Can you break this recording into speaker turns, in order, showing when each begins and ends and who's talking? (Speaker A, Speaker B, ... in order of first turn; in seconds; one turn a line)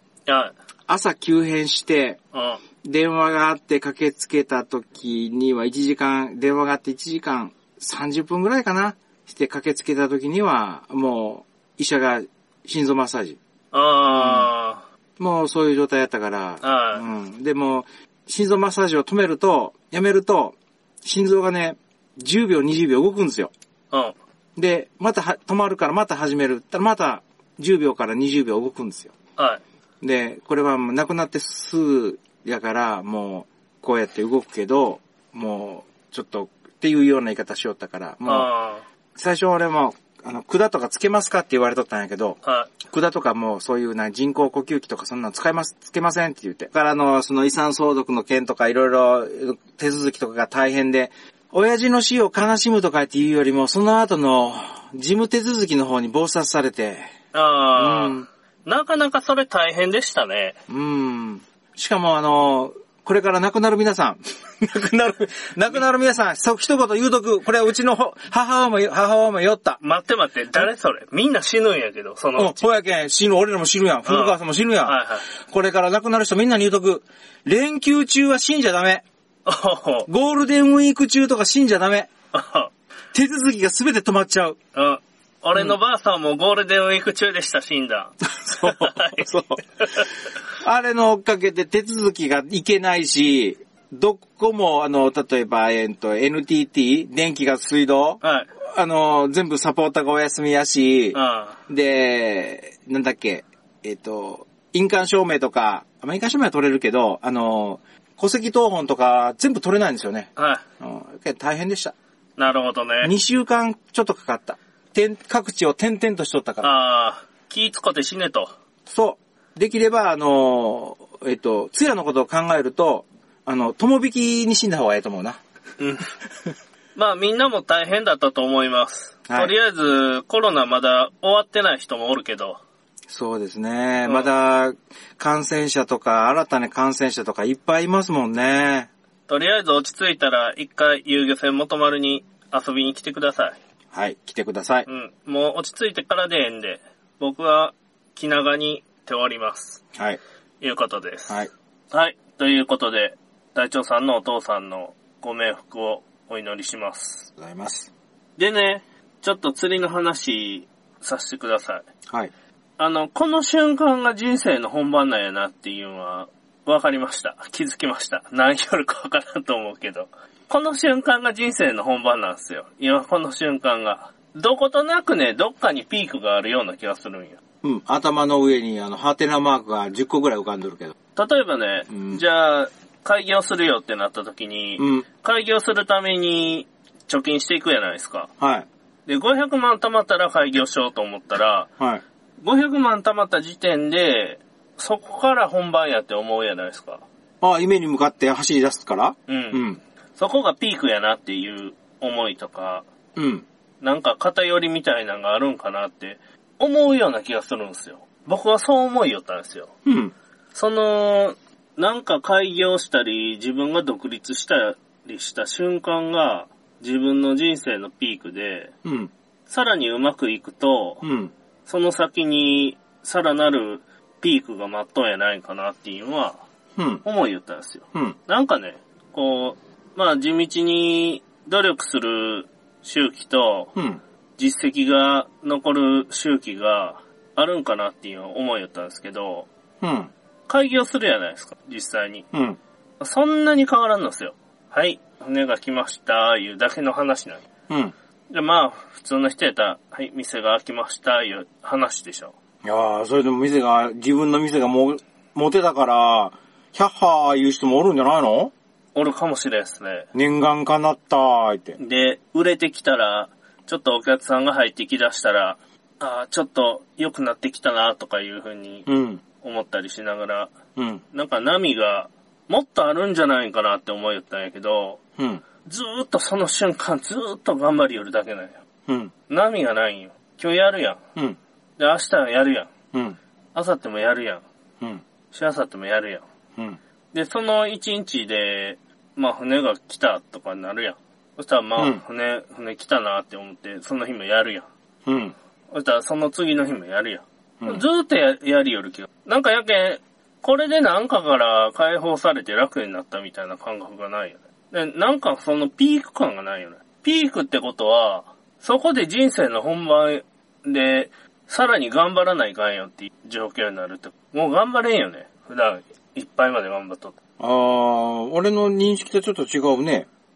Speaker A: 0.2-0.5
Speaker B: 0.9-2.2
Speaker A: 2.3-2.6
Speaker B: 2.8-13.4
Speaker A: 13.7-14.8
Speaker B: 14.1-14.5
Speaker B: 15.2-23.5
Speaker A: 16.6-17.0
Speaker B: 24.6-29.1
Speaker A: 29.4-29.6
Speaker B: 30.0-38.5
Speaker A: 38.2-38.8
Speaker B: 39.1-57.1
Speaker A: 42.4-42.7
Speaker A: 57.3-60.6
Speaker B: 57.7-58.2
Speaker B: 60.7-69.8
Speaker A: 69.8-72.6
Speaker B: 72.4-79.0
Speaker A: 74.0-75.2
Speaker A: 79.5-80.1
Speaker B: 80.1-82.1
Speaker A: 82.3-82.7
Speaker B: 83.1-84.6
Speaker A: 84.7-89.3
Speaker B: 88.3-89.6
Speaker A: 89.8-90.1
Speaker B: 90.6-111.9
Speaker A: 98.2-98.5
Speaker A: 101.1-101.6
Speaker A: 110.4-110.6
Speaker A: 112.4-113.1
Speaker B: 113.0-116.7
Speaker A: 116.6-118.5
Speaker B: 118.8-125.4
Speaker A: 125.8-126.1
Speaker A: 126.9-132.6
Speaker B: 133.1-138.9
Speaker A: 134.0-134.3
Speaker A: 139.3-143.6
Speaker B: 143.9-144.8
Speaker A: 144.8-149.8
Speaker B: 149.9-150.2
Speaker A: 150.6-157.3
Speaker B: 157.4-157.9
Speaker A: 158.4-161.8
Speaker A: 162.8-177.4
Speaker B: 177.6-180.9
Speaker A: 181.2-188.3
Speaker B: 181.9-182.2
Speaker B: 184.8-185.0
Speaker B: 188.4-188.7
Speaker A: 189.1-191.7
Speaker A: 192.4-197.0
Speaker B: 197.4-199.8
Speaker A: 199.3-199.6
Speaker A: 200.2-202.8
Speaker B: 203.2-203.4
Speaker A: 203.8-209.7
Speaker B: 209.8-210.1
Speaker A: 210.5-218.7
Speaker B: 218.8-219.1
Speaker A: 219.5-221.0
Speaker B: 221.0-221.3
Speaker A: 221.7-226.4
Speaker B: 226.8-227.0
Speaker A: 227.0-233.7
Speaker B: 233.7-234.0
Speaker A: 234.4-239.5
Speaker B: 239.8-240.1
Speaker A: 240.5-242.2
Speaker B: 242.3-242.6
Speaker A: 243.0-247.5
Speaker B: 247.7-247.9
Speaker A: 248.3-252.3
Speaker B: 252.6-258.5
Speaker A: 258.9-260.1
Speaker B: 260.1-261.8
Speaker A: 261.8-268.9
Speaker B: 268.9-269.2
Speaker A: 269.4-270.5
Speaker B: 270.8-271.0
Speaker A: 271.1-275.0
Speaker A: 275.6-278.6
Speaker B: 278.9-279.1
Speaker A: 279.3-281.0
Speaker A: 281.8-282.7
Speaker B: 282.9-283.2
Speaker A: 283.5-284.4
Speaker A: 285.3-286.2
Speaker A: 287.1-294.7
Speaker B: 295.1-295.3
Speaker A: 295.7-317.2
Speaker B: 297.6-297.8
Speaker B: 317.4-320.1